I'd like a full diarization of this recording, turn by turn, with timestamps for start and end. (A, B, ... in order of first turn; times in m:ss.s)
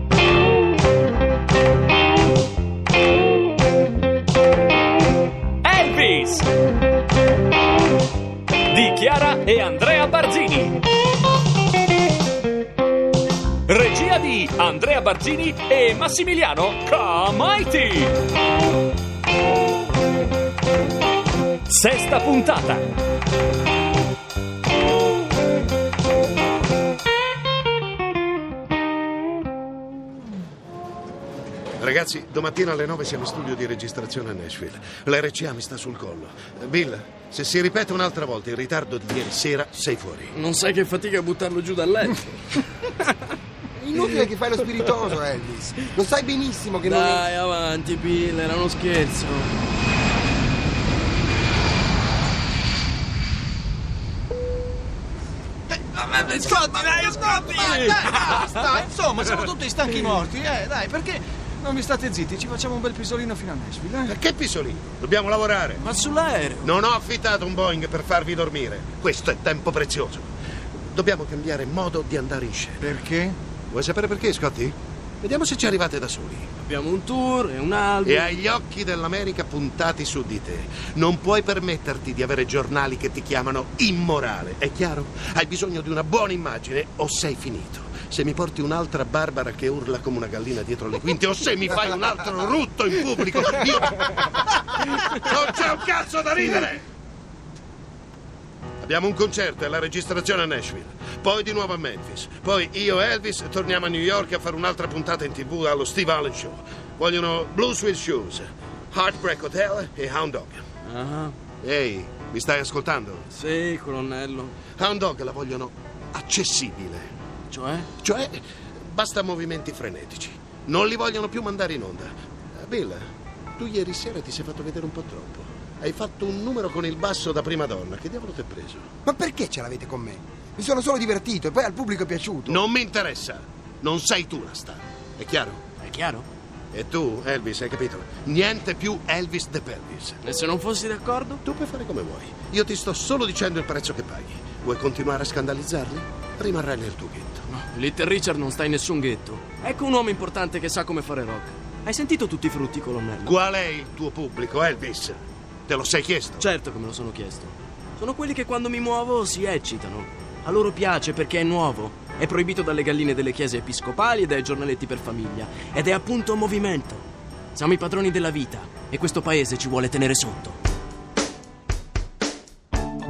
0:05.6-0:06.4 A
0:08.7-0:10.8 A
0:13.7-0:18.1 A
0:21.7-0:22.8 A
0:31.8-0:40.3 B
0:40.3-0:43.0 C
0:43.8-0:47.3 D
0:43.9-0:44.9 C
0:46.8-0:49.5 C
0:55.7-1:04.1 E
0:56.0-0:58.8 C
0:59.9-1:00.2 C
1:04.0-1:05.8 B
1:05.8-1:06.7 C
1:06.6-1:10.3 B
1:10.9-1:12.8 B
1:12.8-1:13.4 E
1:13.7-1:16.5 B
1:16.6-1:18.4 C
1:18.0-1:34.6 B
1:35.3-1:36.8 B
1:38.8-1:50.6 B
1:50.8-1:51.3 C
1:51.6-1:53.3 B
1:53.3-1:54.6 C
1:54.8-1:57.1 B
1:57.5-1:57.9 C
1:58.0-2:08.9 B
2:09.0-2:12.6 D
2:12.5-2:15.6 B
2:15.8-2:16.3 C
2:16.7-2:20.2 B
2:20.2-2:21.4 C
2:21.4-2:27.4 B
2:27.5-2:33.4 C
2:33.2-2:36.4 B
2:36.4-2:50.6 C